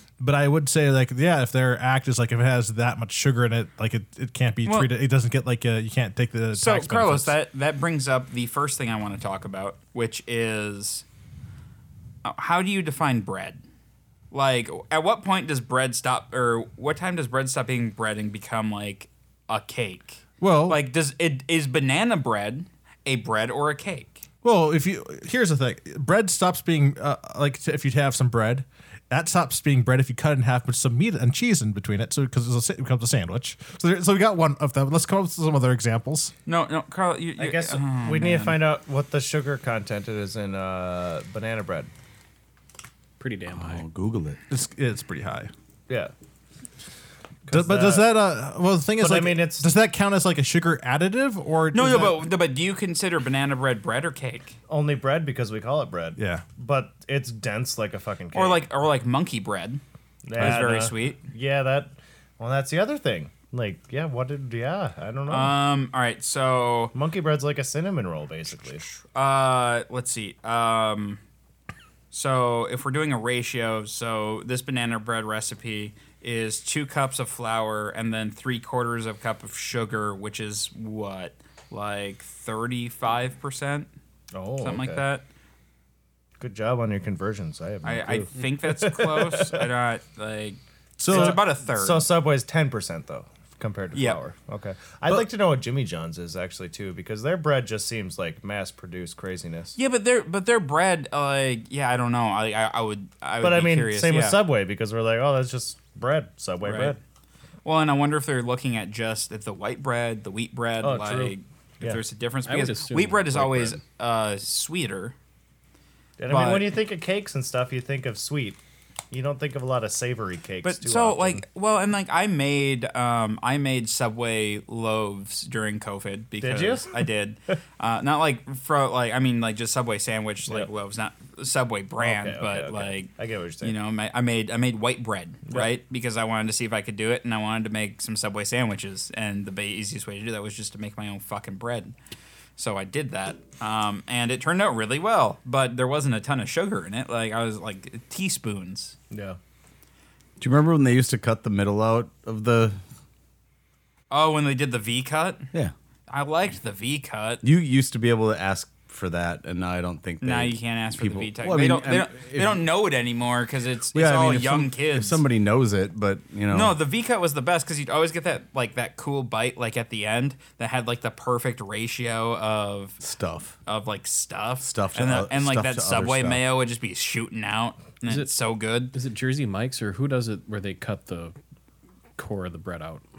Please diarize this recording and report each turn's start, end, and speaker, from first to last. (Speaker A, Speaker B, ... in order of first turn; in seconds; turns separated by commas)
Speaker A: 0.2-7.3, Speaker B: 4.6-4.9, Speaker B: 6.5-11.1, Speaker B: 12.2-13.6, Speaker B: 14.3-24.2, Speaker A: 20.4-20.8, Speaker A: 24.4-36.3, Speaker B: 36.5-38.6, Speaker C: 37.4-41.9, Speaker D: 43.2-43.8, Speaker E: 43.5-44.4, Speaker A: 44.5-45.5, Speaker C: 47.5-48.2, Speaker A: 47.5-52.2, Speaker C: 49.0-49.7, Speaker B: 51.7-54.5, Speaker C: 54.7-58.6, Speaker A: 56.2-56.5, Speaker B: 58.3-59.8, Speaker C: 60.3-65.5, Speaker B: 60.4-61.2, Speaker B: 65.3-66.9, Speaker C: 66.9-68.8, Speaker B: 68.9-71.2, Speaker B: 72.1-83.9, Speaker C: 84.3-85.0, Speaker B: 84.6-85.2, Speaker C: 86.4-89.7, Speaker B: 87.8-92.1, Speaker A: 91.0-91.4, Speaker C: 91.1-99.8, Speaker B: 93.9-94.2, Speaker B: 99.7-104.4, Speaker C: 103.4-107.0, Speaker B: 106.6-107.0, Speaker B: 107.6-115.1, Speaker C: 110.8-112.0, Speaker D: 112.5-113.8, Speaker C: 116.2-118.6, Speaker B: 116.3-116.8, Speaker C: 119.1-121.4, Speaker B: 120.6-141.9, Speaker C: 126.4-127.0, Speaker C: 132.0-133.7, Speaker B: 142.6-148.9, Speaker C: 149.1-149.4, Speaker E: 150.4-152.8, Speaker B: 154.1-155.5, Speaker B: 156.1-157.4, Speaker E: 157.4-162.7, Speaker B: 160.2-165.2, Speaker E: 163.9-166.7, Speaker B: 166.5-173.0, Speaker E: 173.0-173.6, Speaker B: 173.7-178.9, Speaker E: 174.6-176.4, Speaker D: 178.1-178.3, Speaker D: 178.9-181.3, Speaker D: 182.2-183.0